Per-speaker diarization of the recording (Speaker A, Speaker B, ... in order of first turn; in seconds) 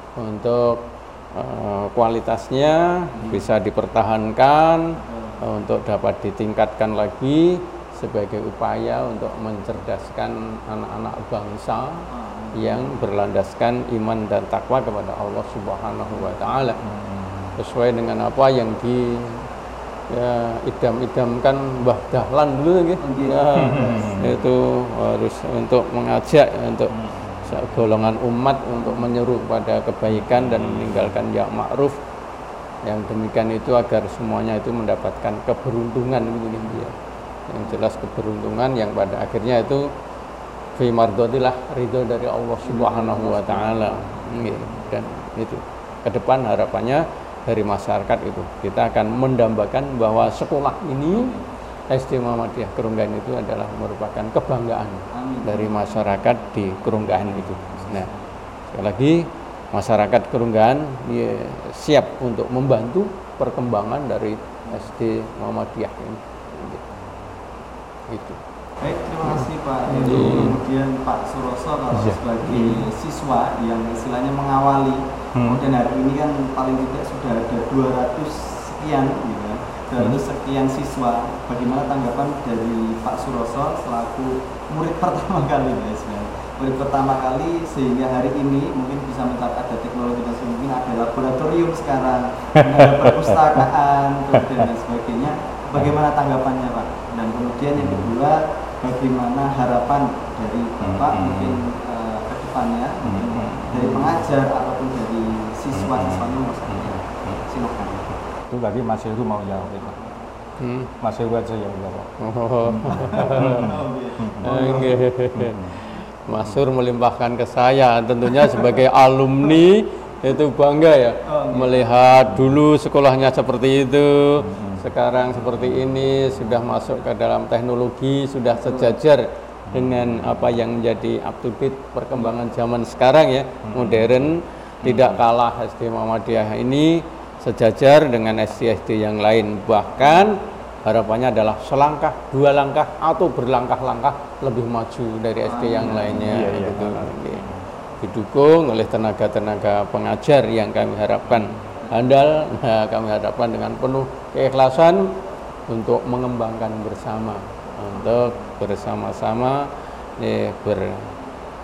Speaker A: 0.2-12.0, 12.6-16.8, 17.6-19.4, 20.1-26.9, 27.4-32.0, 32.8-36.9, 37.5-39.8, 40.8-51.3, 51.9-58.1, 58.7-66.8, 68.1-68.4, 69.2-70.6, 110.6-110.9, 112.2-113.7, 114.4-147.4, 148.0-155.1, 155.7-159.6, 160.2-161.0
Speaker B: 3.1-3.5, 5.0-5.5, 12.1-13.0, 16.1-16.7, 23.0-24.4, 28.8-29.2, 37.6-37.9, 42.6-44.9, 51.1-51.5, 55.1-58.4, 64.6-64.9, 66.8-67.3, 68.8-108.1, 109.6-110.3, 112.9-115.1, 118.4-118.8, 121.2-122.5, 126.6-127.1, 128.5-129.0, 132.1-132.5, 145.4-146.5, 151.7-152.1, 157.9-158.6
Speaker C: 16.8-17.6, 23.5-24.4, 26.9-28.0, 30.1-31.2, 71.9-72.8, 75.3-75.6, 92.5-93.7, 94.3-94.6, 97.8-98.1, 100.8-101.6, 103.0-104.3, 105.7-107.4, 108.5-110.0, 111.0-112.1, 112.6-115.8, 116.4-116.6, 122.3-122.6, 124.4-126.6, 129.7-130.6, 133.7-135.2, 146.1-147.7, 151.3-151.6